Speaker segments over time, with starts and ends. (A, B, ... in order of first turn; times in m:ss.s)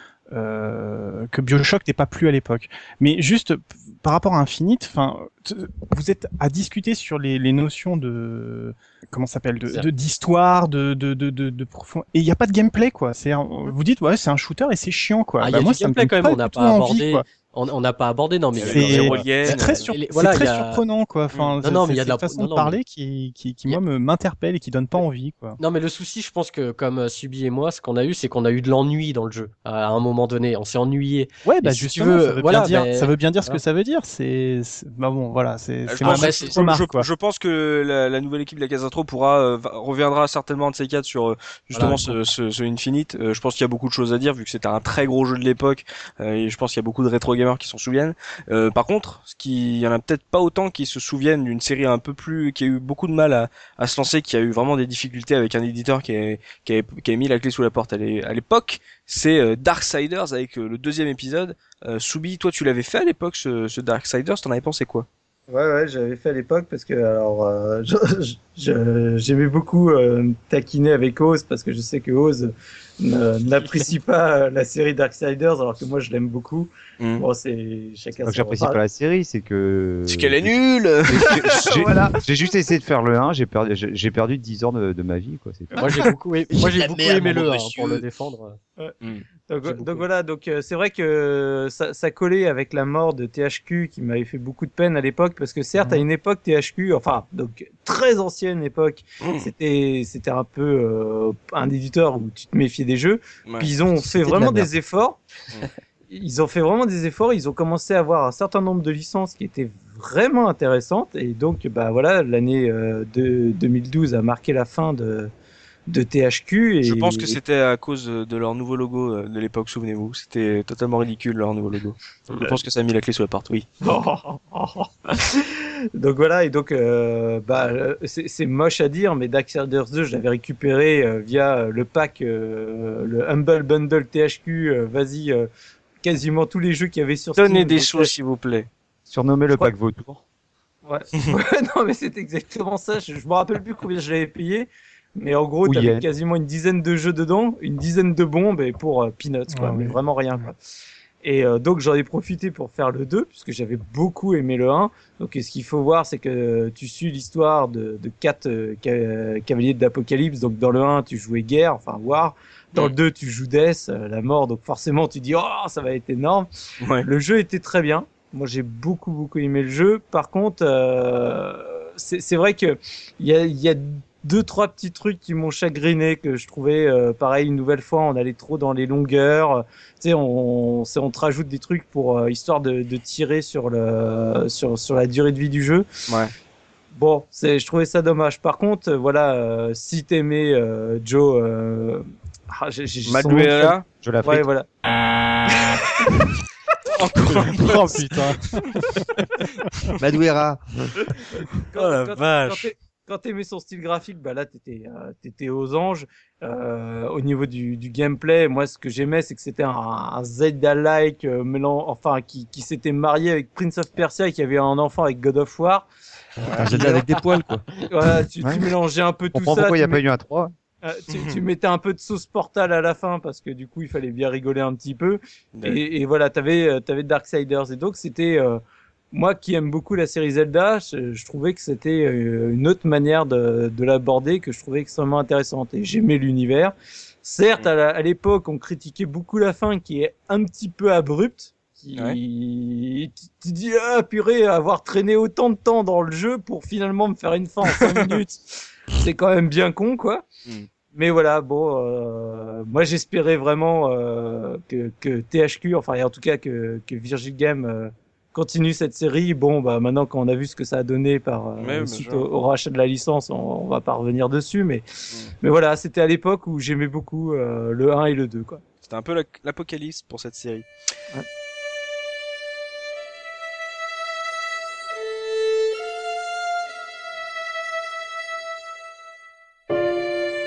0:00.3-0:17.2 A
0:09.6-0:09.9 B
0:15.4-0:20.8 B
0:18.5-0:19.9 C
0:18.6-0:25.6 A
0:21.6-0:22.8 B
0:25.6-0:33.6 B
0:31.4-0:37.1 A
0:35.8-1:05.1 C
0:36.0-0:36.6 B
0:41.7-0:42.2 B
1:05.5-1:18.8 D
1:17.0-1:17.2 C
1:18.2-1:20.6 E
1:20.1-1:21.9 C
1:21.1-1:26.1 E
1:21.5-1:22.2 D
1:25.8-1:28.6 B
1:26.6-1:28.0 C
1:29.4-1:45.2 D
1:29.6-1:30.0 B
1:39.2-1:39.5 C
1:43.9-1:44.7 F
1:46.1-1:55.3 D
1:55.9-1:57.4 D
1:56.8-2:03.6 C
2:03.8-2:15.5 D
2:16.0-2:18.1 D
2:17.4-2:18.7 C
2:19.1-2:20.2 E
2:20.8-2:30.6 D
2:25.6-2:26.0 E
2:29.5-2:30.5 A
2:31.2-3:05.9 D
2:46.8-2:47.1 C
3:06.9-3:14.7 D
3:13.0-3:13.8 C
3:14.0-3:14.4 E
3:16.9-3:18.8 C
3:17.4-3:19.2 A
3:19.4-3:19.9 C
3:20.0-3:21.0 F
3:21.4-3:35.9 D
3:21.7-3:22.7 C
3:36.4-3:36.7 C
3:36.6-3:37.6 F
3:36.8-3:37.0 B
3:37.9-3:40.0 D
3:38.4-3:38.7 E
3:39.3-3:40.5 E
3:40.8-3:48.6 D
3:41.1-3:41.4 C
3:49.1-4:10.2 D
4:10.9-4:24.8 D
4:21.6-4:22.2 C
4:25.4-4:28.6 D
4:28.8-4:30.7 C